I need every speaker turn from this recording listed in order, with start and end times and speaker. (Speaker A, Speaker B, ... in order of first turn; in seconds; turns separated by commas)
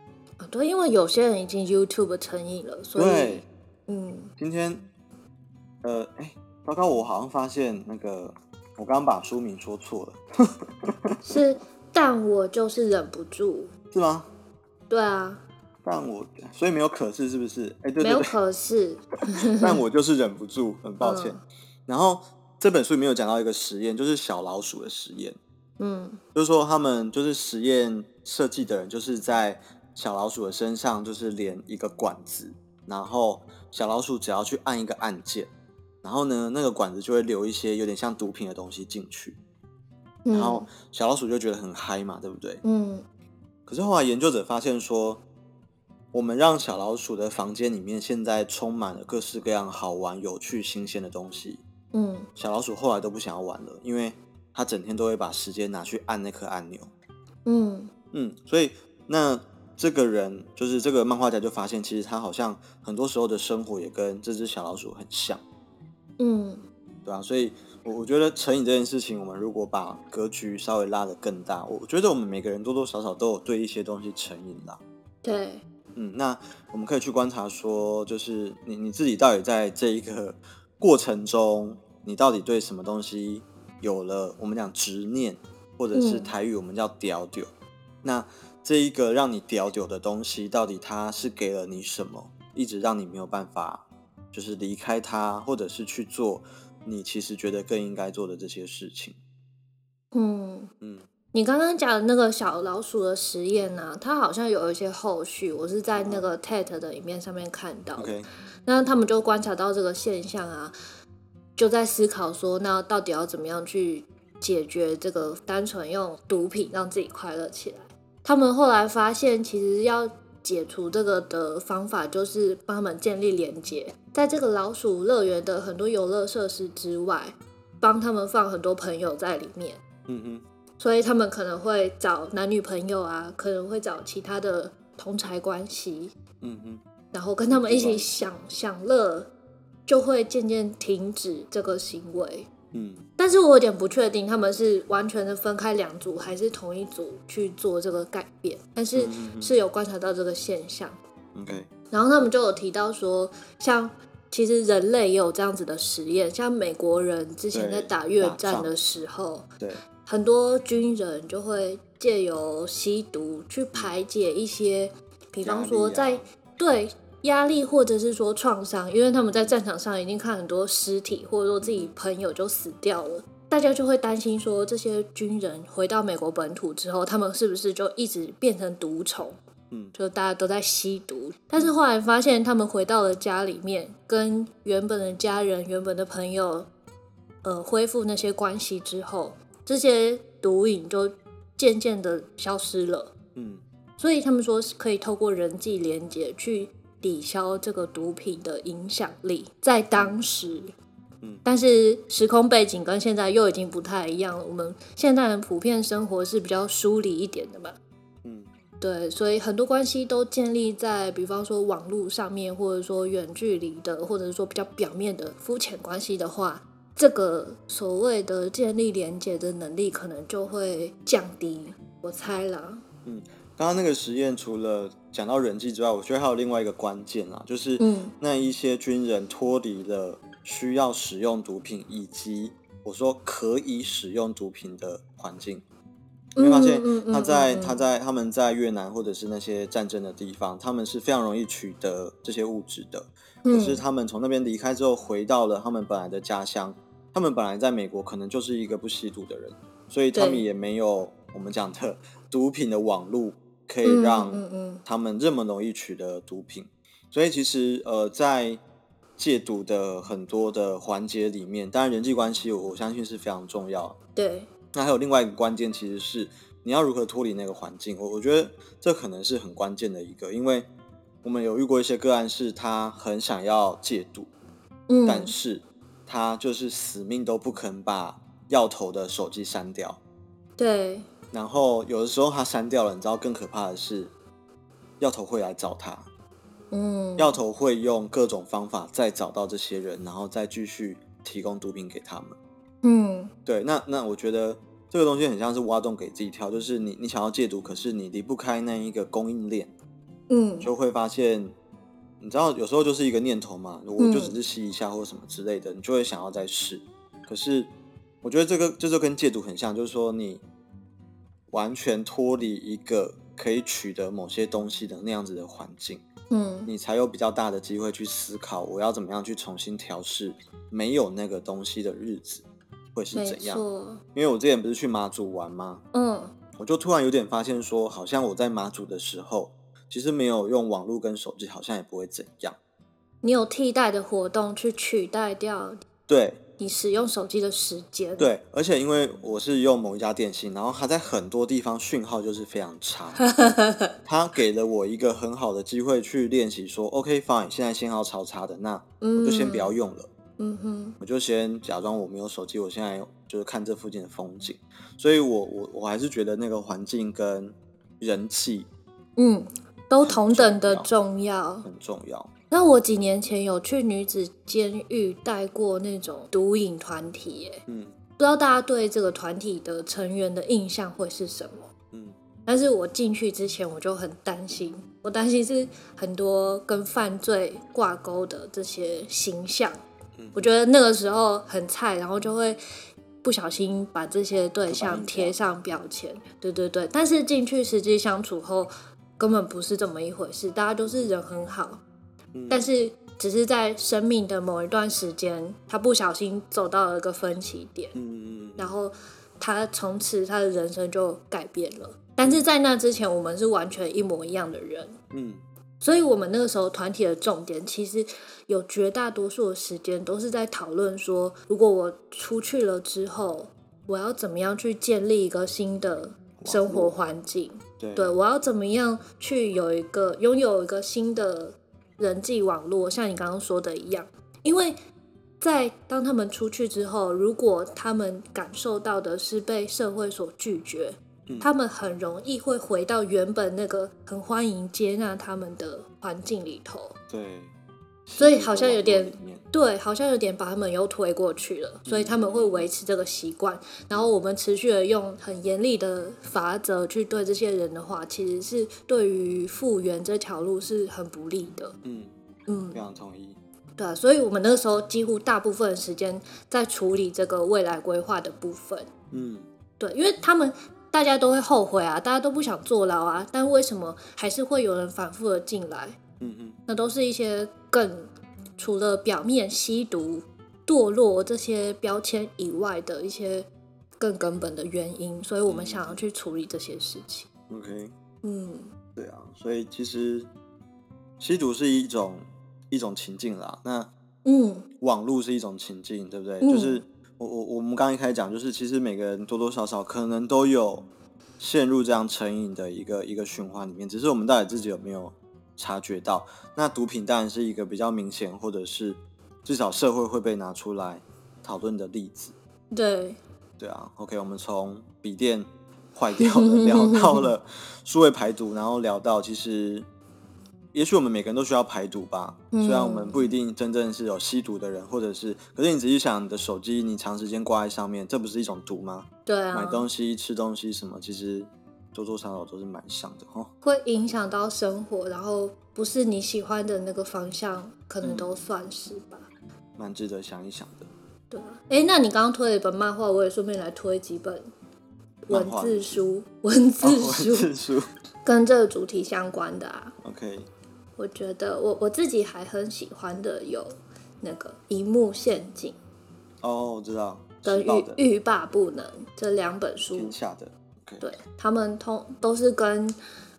Speaker A: 0.4-4.3, Speaker B: 2.9-3.4, Speaker B: 4.4-4.8, Speaker B: 5.8-11.1, Speaker A: 11.2-13.7, Speaker B: 13.9-14.3, Speaker A: 14.9-15.4, Speaker B: 15.8-18.4, Speaker A: 18.0-19.8, Speaker B: 19.6-25.4, Speaker A: 21.0-21.4, Speaker A: 25.8-26.2, Speaker B: 26.3-35.5, Speaker B: 36.0-39.4, Speaker A: 40.2-40.7, Speaker B: 40.3-42.6, Speaker A: 42.6-43.0, Speaker B: 43.7-45.2, Speaker B: 46.1-51.6, Speaker A: 51.9-52.3, Speaker B: 52.4-56.9, Speaker A: 57.4-57.9, Speaker B: 58.1-65.4, Speaker A: 66.2-66.6, Speaker B: 67.0-74.8, Speaker A: 75.2-75.6, Speaker B: 76.0-87.5, Speaker A: 85.9-86.3, Speaker B: 88.0-99.2, Speaker A: 100.1-100.7, Speaker B: 100.8-101.1, Speaker A: 101.3-110.7, Speaker B: 105.9-106.2, Speaker B: 108.0-108.3, Speaker A: 111.6-129.8, Speaker B: 130.1-130.4, Speaker A: 130.8-136.1, Speaker B: 136.4-136.8, Speaker A: 137.1-139.3, Speaker B: 137.5-138.2, Speaker A: 139.9-142.5, Speaker B: 142.7-143.1, Speaker A: 143.2-151.0, Speaker B: 148.9-149.5, Speaker B: 151.3-151.7, Speaker A: 151.9-159.5, Speaker B: 157.5-158.7, Speaker A: 160.0-179.4, Speaker B: 165.4-166.2, Speaker B: 171.6-171.9, Speaker A: 179.9-186.7, Speaker A: 187.4-193.1, Speaker B: 193.3-193.6, Speaker A: 194.0-200.7, Speaker A: 201.4-207.8, Speaker B: 208.2-208.5, Speaker A: 208.8-222.8, Speaker B: 223.0-235.6, Speaker A: 227.8-228.1, Speaker A: 236.3-237.8, Speaker B: 236.4-258.6, Speaker A: 243.4-243.8, Speaker A: 250.1-250.5, Speaker A: 253.8-254.8, Speaker B: 259.2-263.9, Speaker A: 264.1-264.5, Speaker B: 264.7-270.7, Speaker B: 271.2-274.3, Speaker A: 274.9-275.3, Speaker B: 275.1-280.0, Speaker A: 280.6-281.1, Speaker B: 281.3-284.1, Speaker B: 285.0-286.1, Speaker A: 286.7-287.4, Speaker B: 287.2-292.4, Speaker A: 292.8-293.3, Speaker B: 293.4-299.7, Speaker A: 300.3-300.7, Speaker B: 300.6-301.5, Speaker B: 302.2-307.7, Speaker A: 304.0-304.4, Speaker B: 308.2-310.4, Speaker B: 311.5-316.0, Speaker A: 316.3-316.7, Speaker B: 316.6-322.4, Speaker B: 322.9-325.8, Speaker A: 323.1-324.0, Speaker A: 325.9-326.3, Speaker B: 326.6-332.6, Speaker A: 333.2-335.8, Speaker B: 336.1-336.4, Speaker A: 336.6-338.3, Speaker B: 338.2-343.4, Speaker A: 343.2-343.9, Speaker B: 344.0-350.1, Speaker A: 349.0-349.8, Speaker A: 350.4-350.9, Speaker B: 351.0-358.7, Speaker A: 359.2-361.6, Speaker B: 360.0-360.9, Speaker B: 361.6-362.3, Speaker A: 362.5-367.6, Speaker B: 367.7-367.9, Speaker A: 368.2-371.7, Speaker A: 372.5-379.8, Speaker B: 380.1-380.5, Speaker A: 380.3-382.6, Speaker A: 383.2-391.8, Speaker B: 384.7-385.4, Speaker B: 392.3-392.7, Speaker A: 392.5-397.9, Speaker B: 397.9-398.8, Speaker A: 398.6-405.0, Speaker B: 405.1-405.4, Speaker A: 405.8-424.8, Speaker B: 416.4-417.0, Speaker B: 417.8-418.1, Speaker A: 425.4-436.9, Speaker B: 437.1-437.5, Speaker B: 438.1-439.4, Speaker A: 438.2-451.8, Speaker B: 441.9-442.7, Speaker B: 451.8-452.1, Speaker A: 452.5-452.8, Speaker B: 452.7-453.4, Speaker A: 453.8-458.9, Speaker B: 459.1-459.5, Speaker A: 459.8-466.0, Speaker B: 466.2-466.6, Speaker A: 466.7-473.5, Speaker A: 474.0-477.3, Speaker B: 475.5-476.0, Speaker B: 477.5-477.9, Speaker A: 478.2-478.7, Speaker B: 478.9-480.3, Speaker B: 481.2-483.9, Speaker A: 484.2-484.7, Speaker B: 484.8-490.9, Speaker A: 486.4-486.8, Speaker B: 491.4-502.3, Speaker A: 502.7-503.2, Speaker B: 503.6-509.9, Speaker A: 506.2-507.3, Speaker B: 510.7-523.5, Speaker A: 512.5-513.3, Speaker A: 519.2-519.9, Speaker A: 523.6-529.3, Speaker B: 528.0-528.3, Speaker B: 529.8-530.9, Speaker A: 531.3-534.5, Speaker A: 535.2-537.5, Speaker B: 535.3-536.0, Speaker B: 536.8-537.9, Speaker A: 538.2-539.9, Speaker B: 540.0-540.5, Speaker A: 541.0-545.8, Speaker B: 546.4-548.0, Speaker A: 547.4-550.1, Speaker B: 549.9-551.0, Speaker A: 551.0-553.0